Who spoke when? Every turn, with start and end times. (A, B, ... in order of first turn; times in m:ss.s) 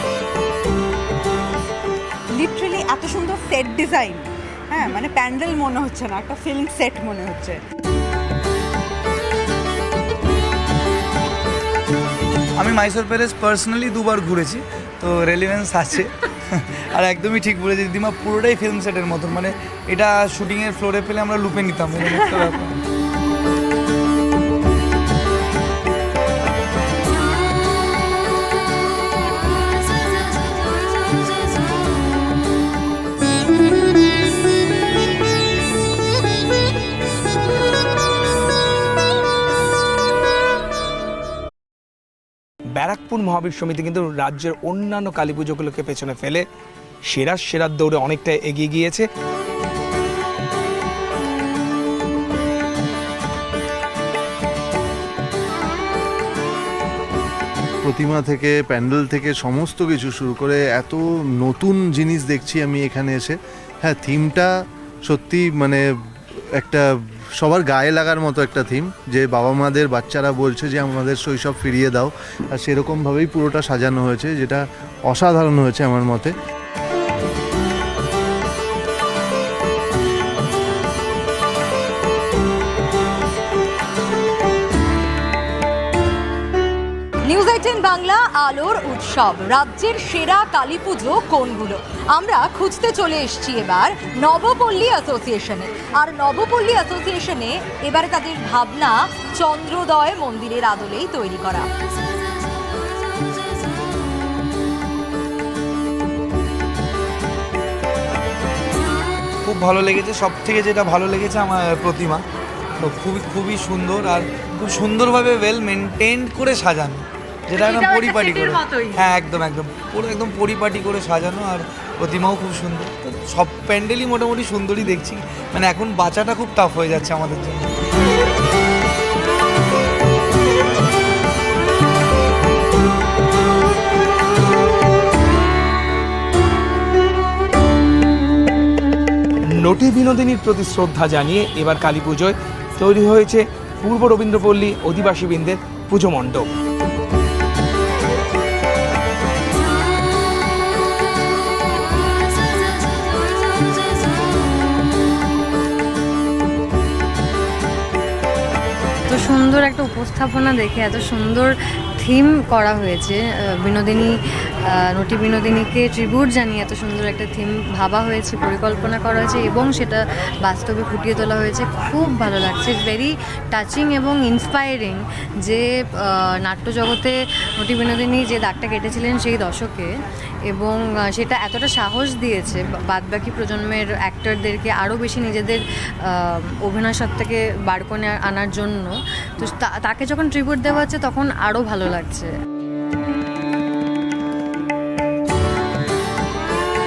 0:02.3-0:07.6 A
0:12.6-0:22.7 B
0:42.7-0:46.4 C
0:47.1-0:49.1 C
0:57.8-1:04.5 D
1:05.1-1:05.8 D
1:06.5-1:06.9 D
1:07.4-1:16.3 D
1:27.2-1:41.7 E
1:49.4-1:52.2 B
1:52.8-2:07.7 B
1:57.6-1:59.0 E
2:19.6-2:26.5 C
2:39.1-2:44.1 F
2:44.9-2:59.9 F
3:00.5-3:12.3 F